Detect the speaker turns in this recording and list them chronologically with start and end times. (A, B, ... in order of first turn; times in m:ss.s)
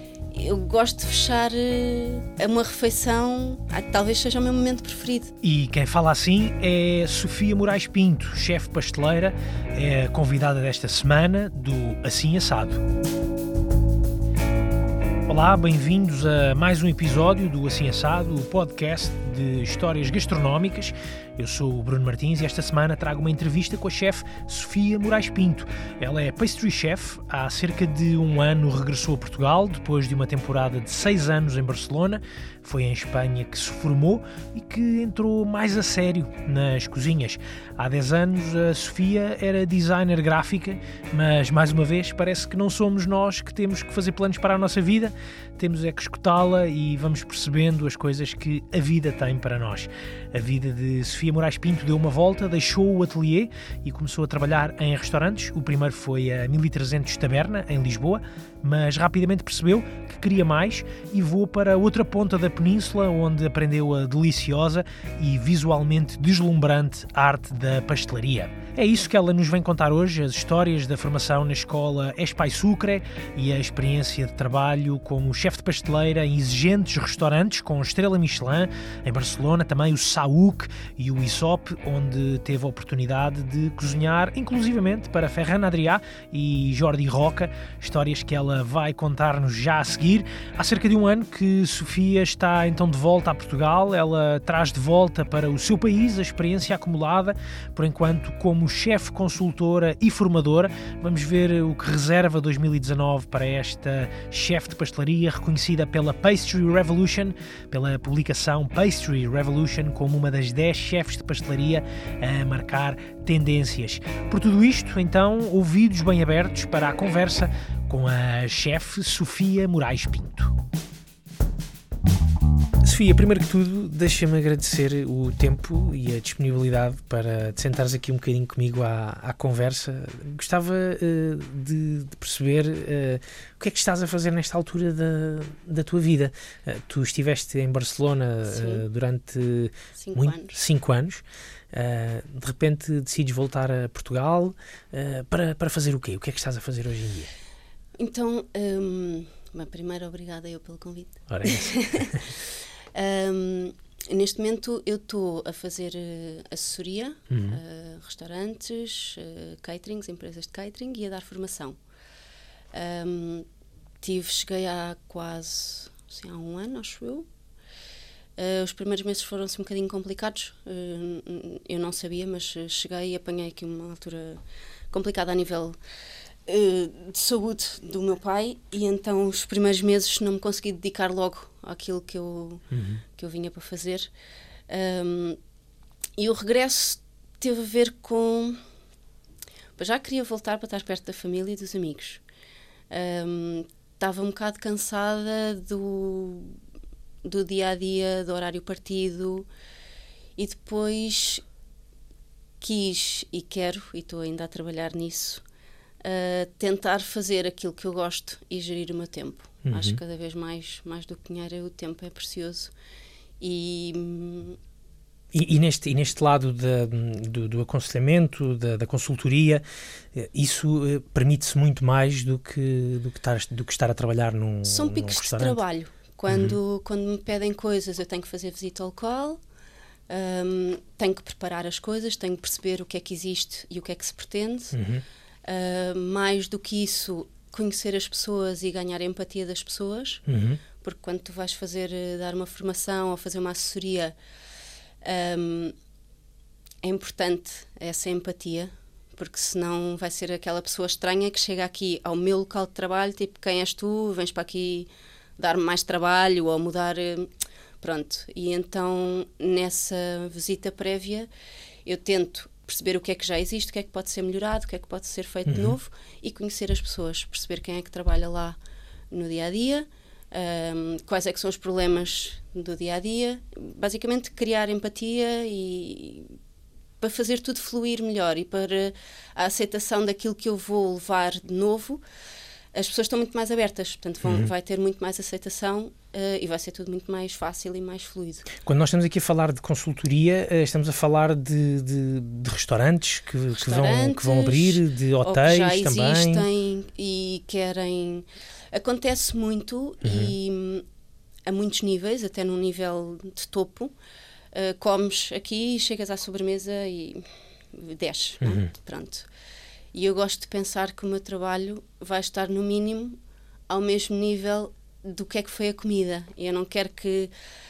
0:00.3-0:05.3 A
0:05.4-0:12.8 B
0:15.3-2:00.5 B
2:02.8-2:27.3 B
2:18.5-2:18.8 A
2:20.0-2:20.6 A
2:28.0-2:32.3 A
2:31.3-2:32.2 B
2:32.9-2:41.8 A
2:37.3-2:37.6 B
2:42.7-2:43.4 A
2:44.0-2:47.2 A
2:48.4-2:55.8 A
2:56.5-3:02.6 A
3:02.7-3:03.0 B
3:03.1-3:04.1 A
3:04.7-3:05.4 A
3:06.2-3:08.6 A
3:09.8-3:12.2 A
3:12.9-3:16.6 A
3:17.2-3:19.5 A
3:20.4-3:21.4 A
3:22.6-3:25.4 A
3:26.0-3:32.7 A
3:29.6-3:30.0 B
3:33.4-3:34.6 A
3:35.3-3:45.6 B
3:44.6-3:49.4 A
3:46.3-3:46.6 B
3:50.1-3:54.8 A
3:54.7-3:55.0 B
3:55.4-4:00.2 A
4:00.3-4:00.6 B
4:00.8-4:04.1 A
4:05.0-4:05.7 A
4:06.8-4:17.3 A
4:17.8-4:21.3 A
4:21.8-4:28.6 A
4:25.5-4:25.8 B
4:29.1-4:36.3 A
4:37.0-4:42.0 A
4:42.7-4:48.5 A
4:44.2-4:44.5 B
4:48.6-4:56.4 B
4:53.5-5:00.8 A
5:00.0-5:00.3 B
5:01.5-5:03.9 A
5:04.5-5:09.3 A
5:09.9-5:13.2 A
5:13.7-5:17.3 A